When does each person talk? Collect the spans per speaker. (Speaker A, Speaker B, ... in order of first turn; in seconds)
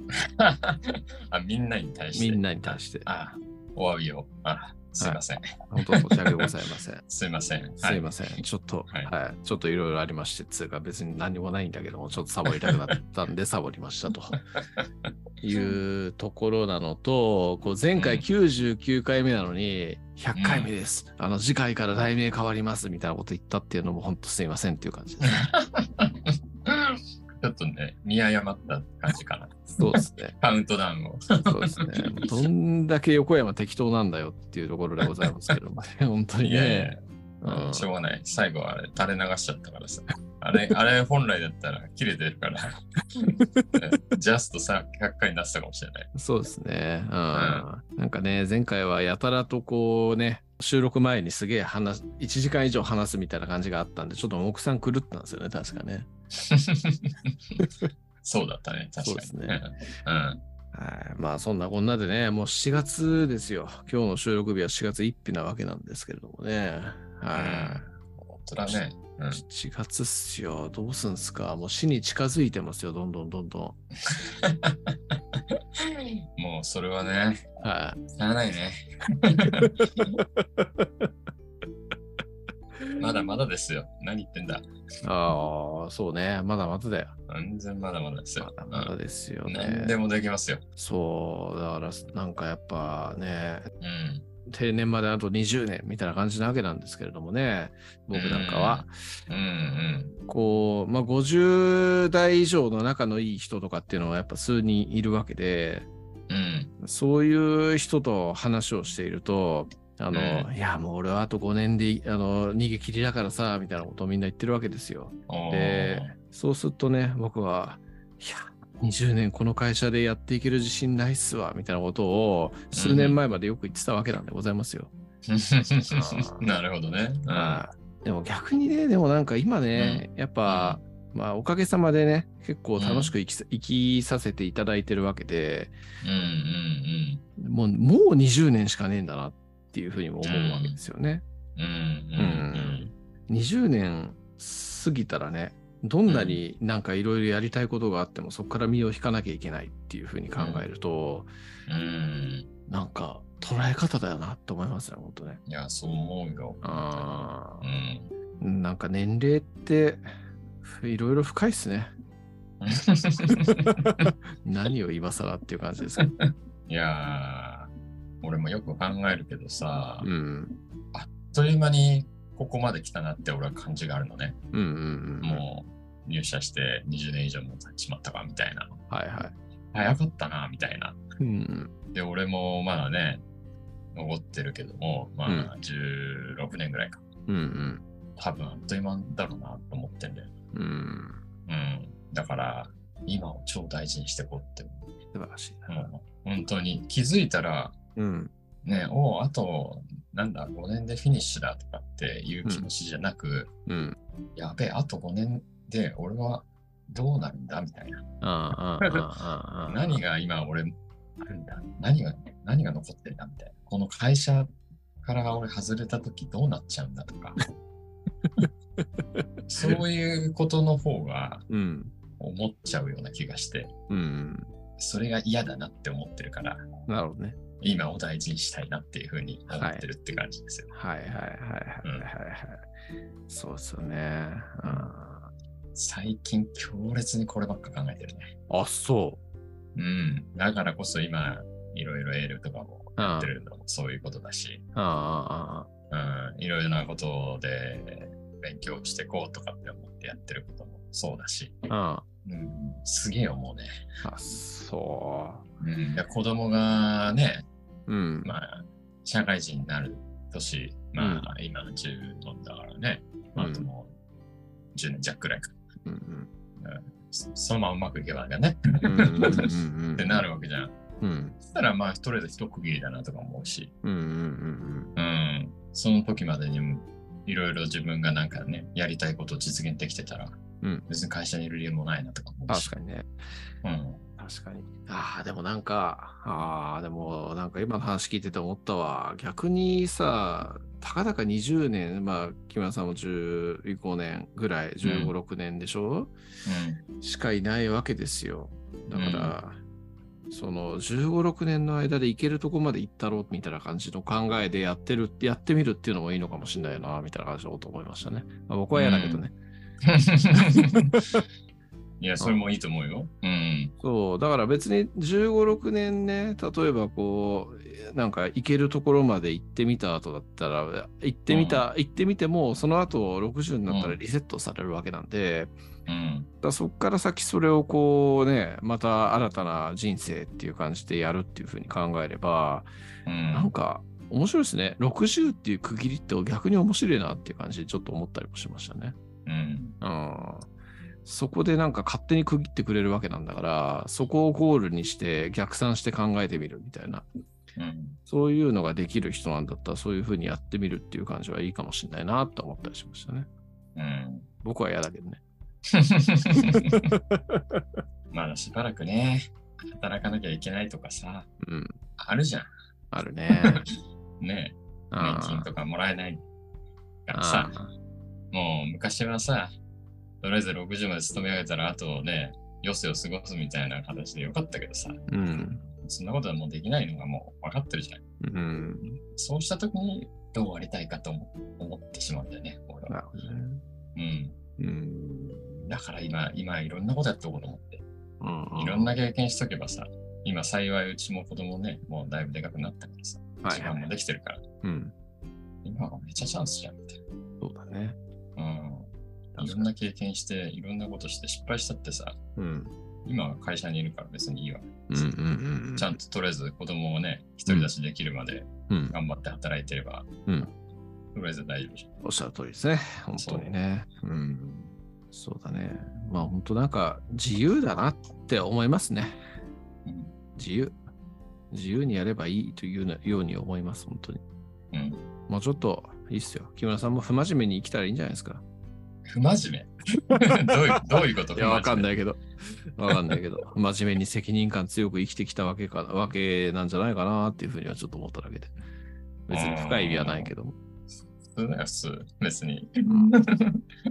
Speaker A: 0.1-6.5, 7.1-8.1, 18.0-18.2, 20.3-20.7, 25.2-32.5, 36.4-42.8, 43.7-46.1, 47.3-47.6, 56.4-57.4, 58.2-60.4, 67.3-67.9, 68.4-69.4, 74.1-77.5, 78.1-80.2, 83.0-84.7, 87.3-88.9, 89.5-90.6, 93.8-94.2, 98.1-100.2, 106.3-106.7, 110.1-110.5, 115.3-116.1, 122.7-123.2, 125.3-127.6, 129.7-130.8, 132.8-133.1, 136.0-137.2, 140.2-140.8, 141.6-142.9, 146.1-146.4, 150.3-150.7, 151.7-152.5, 155.5-158.1, 162.6-164.1, 166.0-170.1, 170.9-174.4, 175.2-178.7, 179.7-181.0, 181.9-183.2, 183.9-187.0, 188.2-190.3, 191.5-194.9, 195.7-197.7, 198.6-203.5, 204.3-208.0, 209.7-214.5, 215.0-217.4, 219.5-221.4, 222.2-223.7, 224.8-226.7, 227.6-230.7, 234.6-234.9, 235.7-238.3, 239.7-244.6, 245.9-251.6, 252.2-253.7, 255.6-257.4, 258.2-263.9, 264.7-265.5, 266.6-270.7, 271.4-273.7, 274.9-282.7, 283.6-284.0, 294.8-295.1, 296.4-296.8, 298.9-299.4, 308.7-309.2, 309.8-311.0, 312.0-313.7, 321.3-321.6, 323.7-324.0, 325.9-326.3, 333.1-333.5, 339.2-339.8, 347.6-348.0, 353.8-354.3, 355.7-356.8, 358.1-361.3, 362.0-362.5, 364.2-366.2, 367.1-367.5, 368.3-369.5, 370.2-375.0, 375.8-378.0, 379.1-383.0, 383.9-384.3, 385.7-387.8, 388.6-394.4, 395.6-397.0, 398.4-402.2, 403.0-405.1, 405.8-410.1, 411.1-411.9, 413.2-413.5, 419.9-420.1, 424.7-425.0, 429.1-431.9, 432.9-433.2, 439.3-440.3, 441.2-443.6
Speaker B: 2.1-3.1, 5.7-7.0, 7.8-14.4, 15.4-25.5, 29.8-30.3, 31.4-37.9, 43.2-43.6, 46.1-56.1, 57.6-57.9, 59.0-59.6, 60.7-67.9, 69.3-73.8, 77.6-78.0, 79.4-81.1, 85.0-87.1, 88.4-90.0, 90.8-93.7, 94.5-98.9, 100.3-105.9, 106.8-124.9, 125.9-126.4, 127.3-135.7, 137.4-141.2, 142.2-151.3, 152.7-155.4, 156.6-157.6, 158.4-160.1, 160.6-161.9, 163.4-166.1, 170.0-170.6, 174.5-175.4, 178.9-179.3, 181.2-181.7, 185.3-185.5, 187.3-187.8, 190.5-191.2, 195.1-195.8, 197.9-198.3, 203.7-204.0, 208.2-210.0, 218.2-219.8, 221.5-221.9, 223.9-224.5, 226.9-227.4, 229.5-229.8, 230.7-232.6, 233.3-235.3, 238.5-239.2, 243.0-243.3, 244.7-245.7, 251.7-252.0, 254.0-255.4, 257.9-258.3, 261.0-261.3, 263.4-263.7, 265.8-266.3, 268.8-270.2, 271.0-271.4, 273.8-274.9, 282.5-283.1, 284.2-296.1, 297.0-299.6, 300.3-309.3, 310.3-311.2, 313.8-325.5, 326.4-332.7, 333.3-339.0, 339.8-340.5, 341.0-347.1, 348.1-353.3, 354.4-355.2, 356.4-357.6, 361.4-361.8, 362.9-363.7, 364.9-365.5, 367.1-367.7, 375.1-375.6, 378.2-379.0, 382.9-383.6, 384.6-385.7, 388.2-388.9, 393.4-393.8, 394.6-394.9, 397.4-398.0, 399.3-399.7, 402.4-402.7, 404.9-405.9, 408.7-408.9, 410.2-410.5, 412.0-419.2, 420.4-420.8, 421.5-424.2, 425.3-428.4, 430.1-438.5, 439.3-440.6, 442.9-443.1